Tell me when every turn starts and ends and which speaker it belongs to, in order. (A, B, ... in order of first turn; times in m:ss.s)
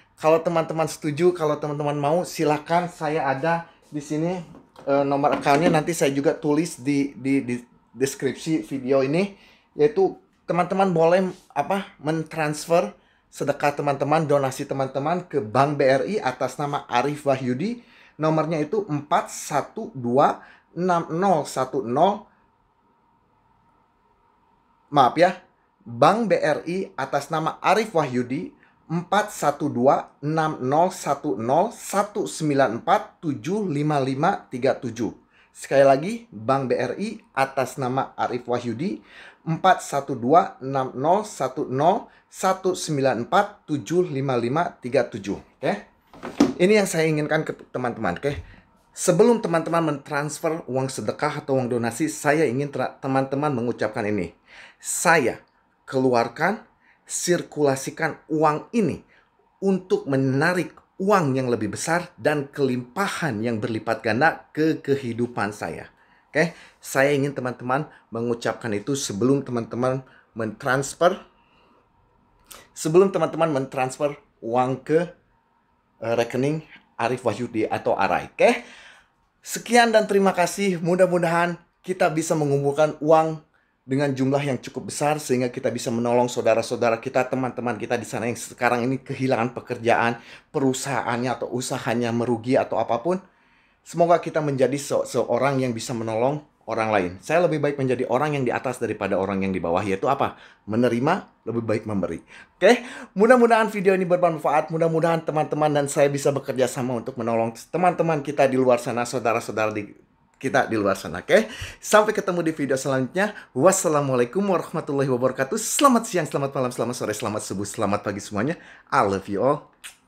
0:00.2-0:22.2 A
0:24.9-0:25.4 A
0:25.9-0:45.8 A
0:46.6-0:48.4 A
0:48.9-0:59.0 A
0:59.6-1:11.2 A
1:12.7-1:15.1 A
1:16.0-1:18.6 A
1:19.4-1:33.2 A
1:33.8-1:59.7 A